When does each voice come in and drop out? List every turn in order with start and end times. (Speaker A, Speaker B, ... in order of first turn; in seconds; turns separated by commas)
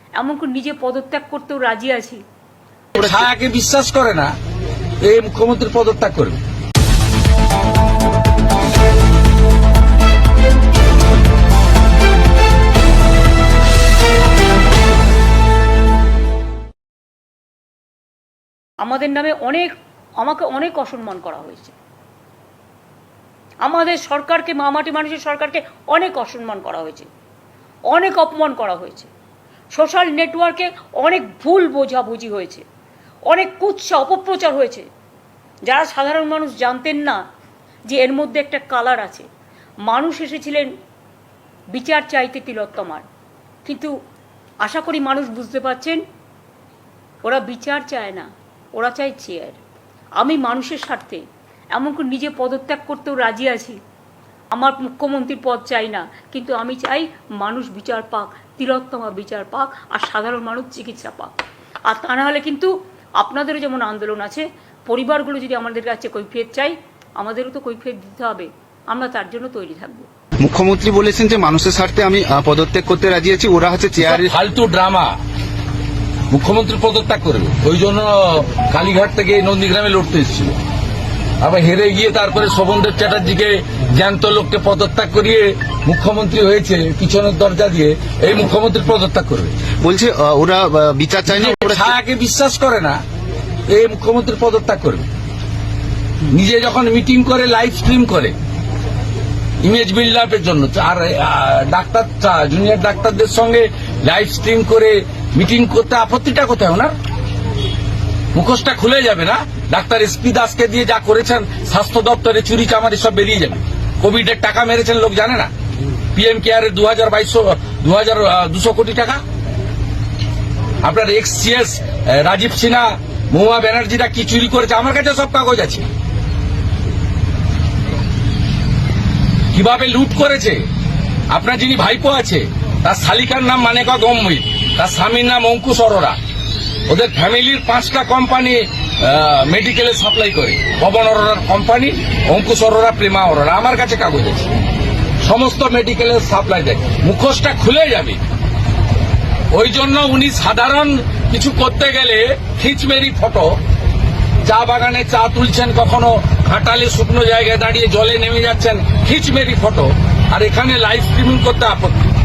Speaker A: 0.2-2.2, Speaker B: 3.0-4.3, Speaker C: 3.0-3.3, Speaker B: 5.1-6.4, Speaker A: 18.8-21.8, Speaker A: 23.6-27.1, Speaker A: 27.9-29.1, Speaker A: 29.7-32.6, Speaker A: 33.3-34.9, Speaker A: 35.7-37.2, Speaker A: 37.9-39.3, Speaker A: 39.9-40.7, Speaker A: 41.7-43.0, Speaker A: 43.6-43.9, Speaker A: 44.6-46.0, Speaker A: 47.2-49.6, Speaker A: 50.2-51.2, Speaker A: 51.7-53.8, Speaker A: 54.5-61.4, Speaker A: 61.9-70.1, Speaker C: 70.4-74.3, Speaker B: 74.0-75.1, Speaker B: 76.3-80.5, Speaker B: 81.4-89.6, Speaker C: 89.8-91.9, Speaker B: 91.3-93.0, Speaker B: 93.7-95.1, Speaker B: 96.3-98.3, Speaker B: 99.6-106.9, Speaker B: 108.3-115.5, Speaker B: 116.2-119.2, Speaker B: 120.8-125.9, Speaker B: 129.5-130.6, Speaker B: 131.3-136.2, Speaker B: 136.9-144.5, Speaker B: 145.2-148.2, Speaker B: 149.5-153.6, Speaker B: 154.4-162.0